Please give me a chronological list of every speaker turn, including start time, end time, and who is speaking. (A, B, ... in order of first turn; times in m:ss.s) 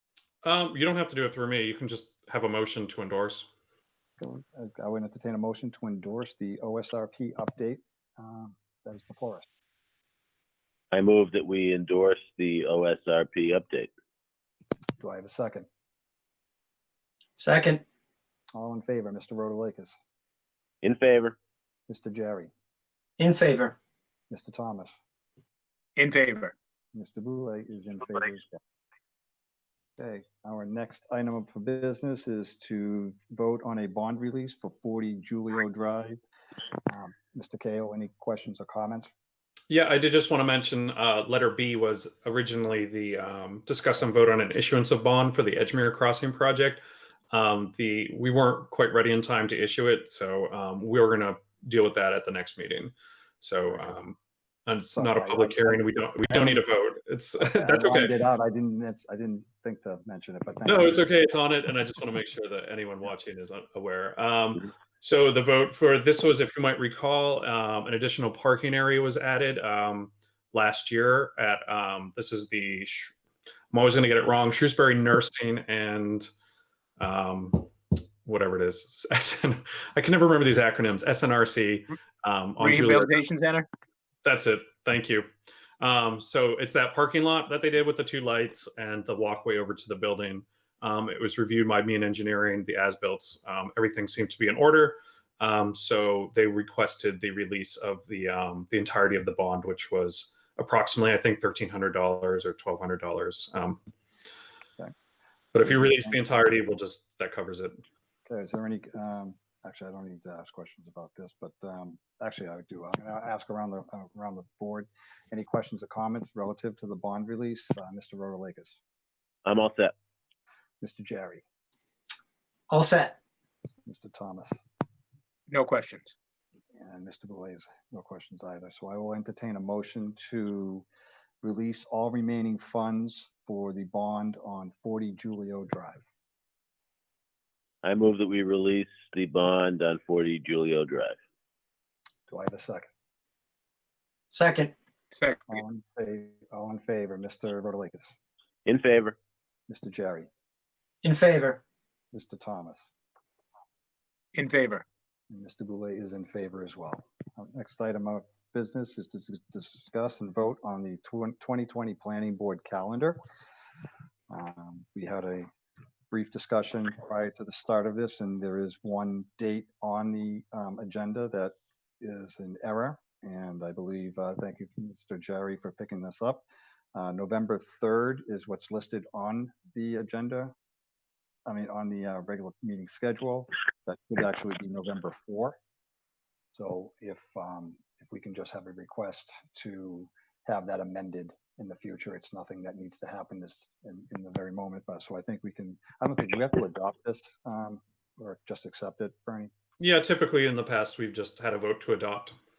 0:00.4-0:03.5 A
0:04.2-0:09.5 B
0:10.9-0:13.9 C
0:15.0-0:15.7 B
0:17.4-0:17.8 D
0:18.5-0:20.0 B
0:20.8-0:21.4 C
0:21.9-0:22.5 B
0:23.2-0:23.8 D
0:24.3-0:25.0 B
0:26.0-0:26.5 E
0:26.9-0:28.6 B
0:30.0-0:36.2 B
0:36.9-0:39.1 B
0:39.7-0:58.2 A
0:54.9-0:56.6 B
0:57.4-1:01.1 B
1:00.6-1:13.1 A
1:13.7-1:16.3 A
1:17.0-1:17.7 A
1:18.2-1:23.2 A
1:22.6-1:23.7 E
1:24.2-1:25.2 A
1:25.8-1:43.8 A
1:45.5-1:47.8 A
1:45.6-1:46.2 B
1:48.3-1:58.8 B
1:59.4-1:59.9 C
2:00.8-2:01.4 B
2:02.7-2:03.2 D
2:03.9-2:04.6 B
2:05.5-2:06.1 E
2:06.8-2:10.9 B
2:11.4-2:16.0 B
2:17.8-2:21.2 C
2:22.3-2:22.9 B
2:24.3-2:24.7 D
2:25.1-2:25.6 E
2:25.5-2:28.2 B
2:28.6-2:29.2 C
2:29.7-2:30.3 B
2:31.0-2:31.6 D
2:32.1-2:32.9 B
2:34.4-2:34.8 E
2:35.3-2:43.2 B
2:44.3-2:45.5 B
2:46.1-3:00.5 B
3:01.5-3:05.6 B
3:06.5-3:19.5 B
3:19.8-3:22.4 A